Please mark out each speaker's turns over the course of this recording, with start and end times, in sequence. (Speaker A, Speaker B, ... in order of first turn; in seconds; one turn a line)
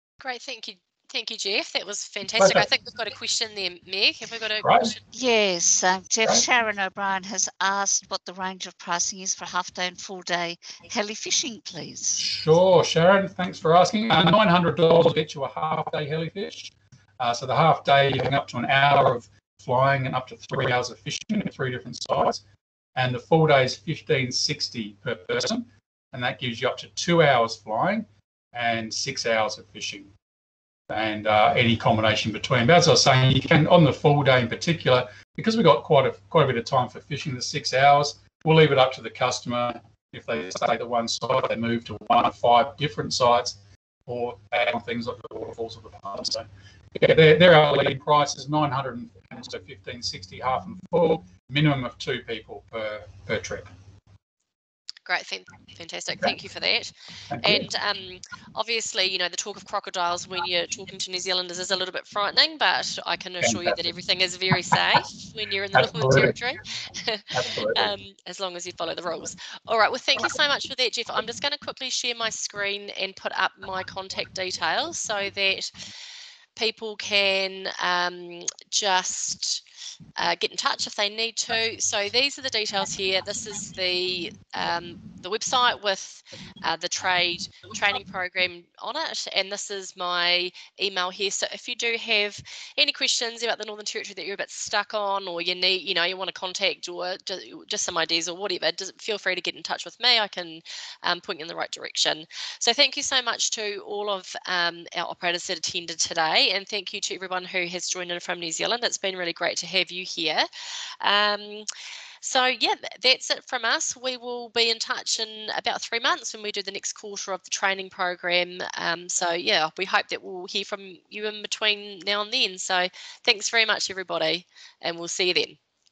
Speaker A: 0.2-5.0
Speaker B: 2.4-2.7
Speaker B: 4.6-5.0
Speaker C: 5.1-12.3
Speaker B: 12.2-22.4
Speaker B: 23.0-30.1
Speaker B: 30.9-53.7
Speaker A: 55.1-75.7
Speaker B: 57.3-57.7
Speaker B: 63.4-63.8
Speaker B: 65.7-66.3
Speaker B: 67.3-67.9
Speaker A: 76.6-79.6
Speaker A: 80.2-110.5
Speaker A: 111.0-111.7
Speaker A: 112.2-125.6